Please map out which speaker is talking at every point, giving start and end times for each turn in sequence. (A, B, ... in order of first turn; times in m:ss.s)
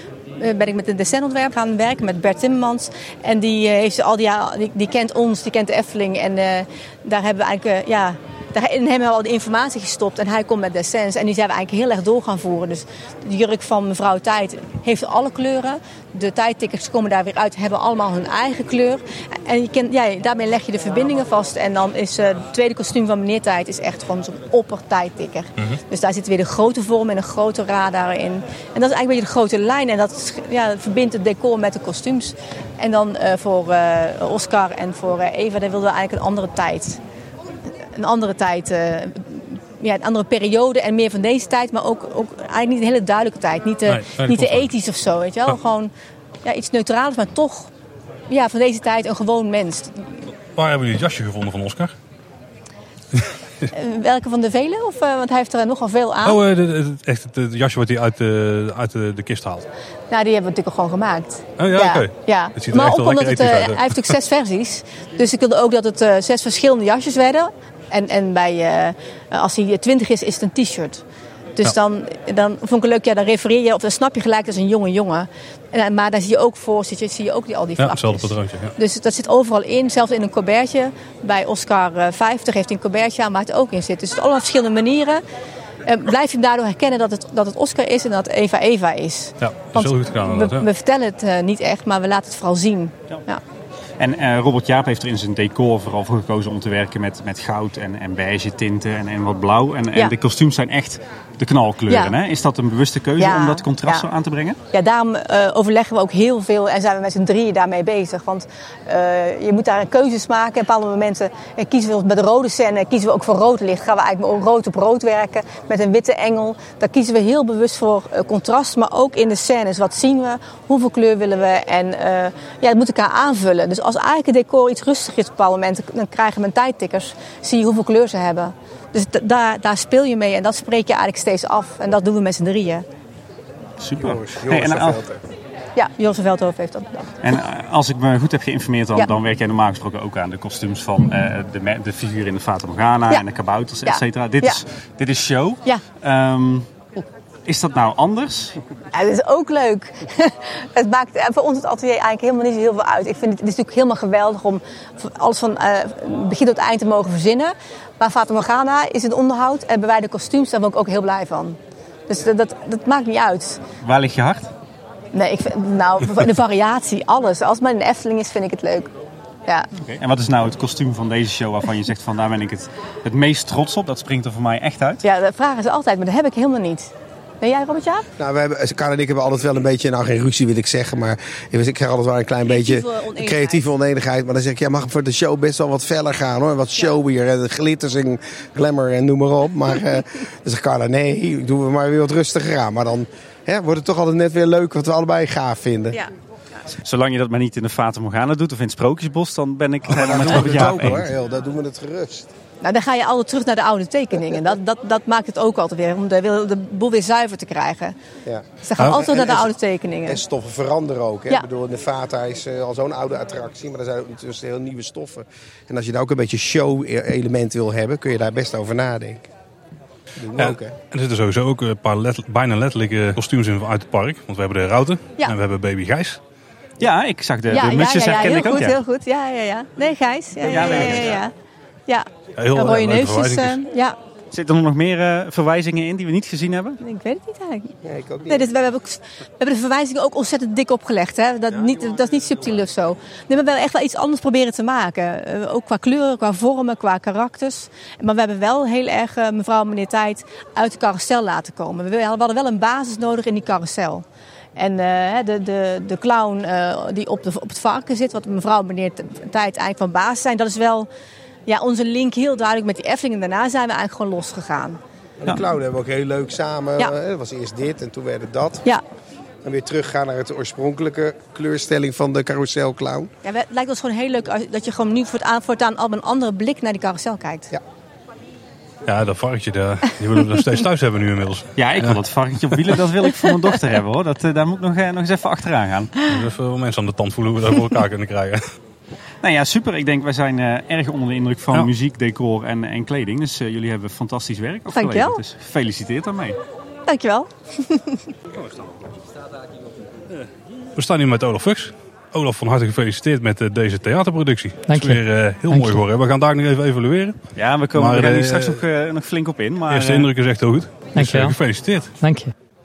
0:00.4-0:37.0 A
0:37.8-0:45.9 A
0:43.9-0:44.7 B
0:46.4-0:47.7 A
0:48.3-0:50.1 A
0:50.5-0:51.9 B
0:53.1-0:53.7 B
0:53.7-0:56.4 A
0:56.2-0:59.7 B
1:00.1-1:11.0 A
1:01.6-1:04.2 B
1:11.6-1:25.2 A
1:17.8-1:18.7 B
1:25.8-1:33.4 A
1:29.4-1:30.7 B
1:34.0-1:44.6 C
1:41.9-1:42.2 A
1:43.2-1:44.1 A
1:44.7-2:12.8 A
2:13.8-2:15.0 C
2:14.0-2:15.2 D
2:15.8-2:17.2 A
2:17.2-2:26.9 C
2:23.9-2:24.6 A
2:27.5-2:28.6 C
2:28.9-2:43.6 A
2:43.8-2:44.5 C
2:45.1-2:48.9 A
2:49.8-2:55.0 C
2:55.0-2:58.1 A
2:58.2-3:16.0 D
3:02.4-3:03.6 A
3:16.7-3:21.0 C
3:19.9-3:22.3 D
3:20.2-3:21.0 B
3:22.6-3:28.0 A
3:28.3-3:29.5 D
3:28.6-3:30.2 A
3:30.1-3:39.3 D
3:40.2-3:40.7 D
3:40.4-3:46.2 B
3:46.8-3:48.8 C
3:47.5-3:51.3 A
3:50.4-3:51.2 D
3:50.6-3:51.0 C
3:51.9-3:54.0 A
3:52.4-3:53.6 B
3:54.3-3:56.8 C
3:56.8-4:14.0 A
3:57.8-3:58.5 D
4:14.6-4:20.9 A
4:21.5-4:24.8 A
4:25.2-4:28.6 D
4:29.4-4:33.1 D
4:33.2-4:37.5 A
4:38.9-4:42.0 B
4:41.6-4:45.9 C
4:46.1-4:48.5 B
4:49.2-4:56.4 C
4:54.7-4:55.2 A
4:56.9-4:58.1 A
5:00.8-5:08.6 B
5:04.7-5:05.8 E
5:07.4-5:10.1 C
5:09.7-5:11.9 B
5:11.0-5:11.4 E
5:12.0-5:12.3 E